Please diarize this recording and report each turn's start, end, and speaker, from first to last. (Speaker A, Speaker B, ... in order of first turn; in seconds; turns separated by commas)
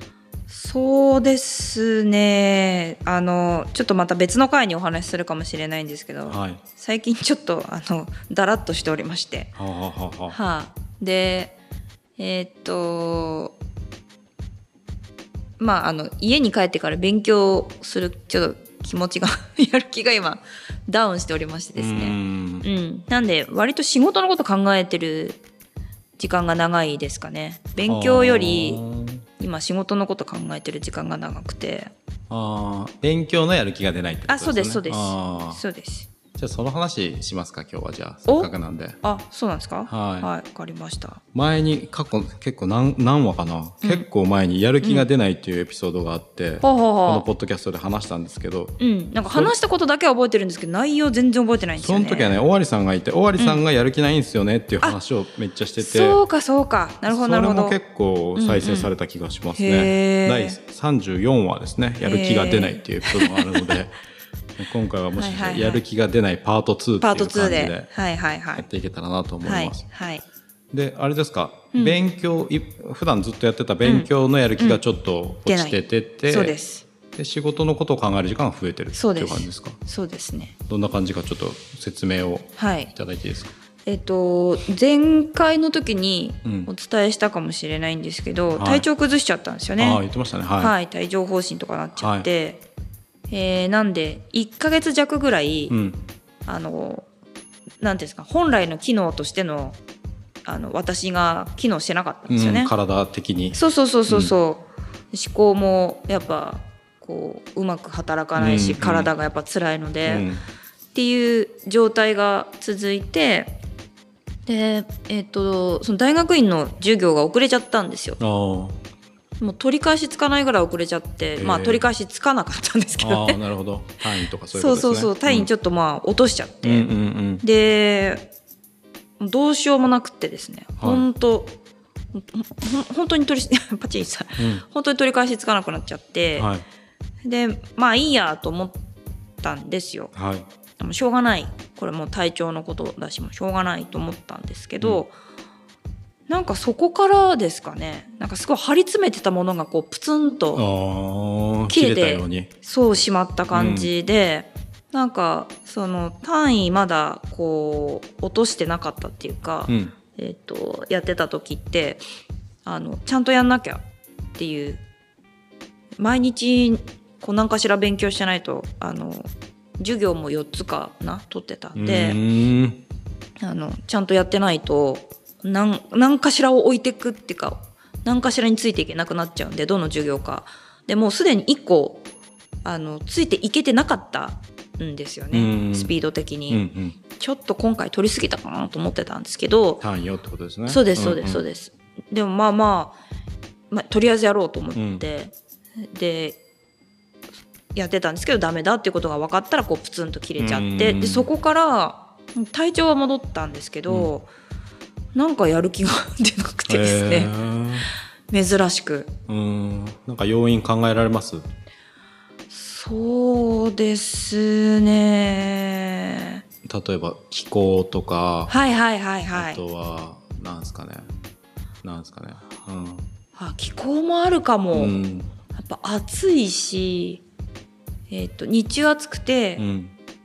Speaker A: 0.5-9.5, Speaker B: 6.3-6.6, Speaker B: 9.6-10.4, Speaker A: 10.3-11.6, Speaker A: 12.2-13.6, Speaker A: 15.6-25.4, Speaker B: 21.8-22.7, Speaker A: 26.2-28.8, Speaker B: 27.9-29.2, Speaker A: 29.4-31.9, Speaker B: 32.3-35.6, Speaker A: 34.3-36.1, Speaker B: 36.4-39.0, Speaker A: 39.0-41.2, Speaker B: 39.9-40.3, Speaker B: 41.3-48.8, Speaker A: 46.6-47.2, Speaker A: 48.8-52.3, Speaker B: 49.3-49.5, Speaker B: 51.8-56.2, Speaker A: 55.8-57.8, Speaker B: 57.1-63.9, Speaker A: 58.4-58.9, Speaker A: 59.6-60.6, Speaker A: 62.0-63.7, Speaker B: 64.6-67.9, Speaker A: 65.2-65.8, Speaker A: 67.0-68.7, Speaker B: 68.5-69.8, Speaker A: 69.4-70.2, Speaker B: 70.7-76.6, Speaker A: 71.7-72.0, Speaker A: 73.8-74.8, Speaker A: 75.5-76.8, Speaker B: 77.1-79.8, Speaker A: 78.9-80.5, Speaker B: 80.7-83.5, Speaker A: 82.6-82.9, Speaker A: 83.9-90.0, Speaker B: 86.4-86.7, Speaker B: 88.5-88.9, Speaker B: 89.8-90.8, Speaker A: 90.6-92.6, Speaker B: 92.0-92.3, Speaker A: 93.3-95.8, Speaker B: 95.7-96.0, Speaker A: 96.5-97.1, Speaker A: 97.8-99.8, Speaker A: 100.4-102.7, Speaker B: 102.3-103.6, Speaker A: 103.5-110.3, Speaker B: 104.1-104.4, Speaker B: 108.4-109.1, Speaker B: 110.1-110.4, Speaker A: 110.9-113.5, Speaker A: 114.5-118.2, Speaker B: 118.2-118.8, Speaker A: 119.4-123.4, Speaker B: 121.4-121.9, Speaker B: 123.0-125.5, Speaker A: 124.5-126.9, Speaker B: 126.6-127.4, Speaker A: 127.4-128.2, Speaker A: 129.2-131.6, Speaker B: 130.8-131.1, Speaker A: 132.1-136.5, Speaker B: 134.4-134.6, Speaker B: 136.4-136.6, Speaker A: 137.2-138.8, Speaker A: 139.4-140.1, Speaker B: 140.1-140.4, Speaker A: 140.8-145.1, Speaker A: 146.3-150.6, Speaker B: 150.6-152.5, Speaker A: 151.7-162.0, Speaker B: 153.5-153.9, Speaker B: 159.7-159.9, Speaker A: 162.6-163.8, Speaker A: 164.4-164.8, Speaker A: 166.0-172.2, Speaker B: 171.8-172.8, Speaker A: 173.4-182.0, Speaker A: 182.6-186.6, Speaker B: 185.3-185.9, Speaker B: 186.5-187.0, Speaker A: 187.2-189.8, Speaker B: 189.8-191.4, Speaker A: 190.7-193.0, Speaker A: 193.7-195.3, Speaker B: 194.8-195.0, Speaker A: 195.8-196.4, Speaker A: 197.8-204.3, Speaker B: 200.4-201.3, Speaker A: 205.1-207.3, Speaker B: 206.7-207.9, Speaker A: 208.3-209.1, Speaker B: 209.3-211.4, Speaker A: 212.5-216.4, Speaker B: 216.6-218.5, Speaker A: 218.5-219.6, Speaker B: 219.3-221.1, Speaker B: 221.8-223.1, Speaker A: 223.4-224.9, Speaker B: 224.7-225.3, Speaker A: 225.5-227.2, Speaker A: 228.1-229.6, Speaker B: 229.6-229.9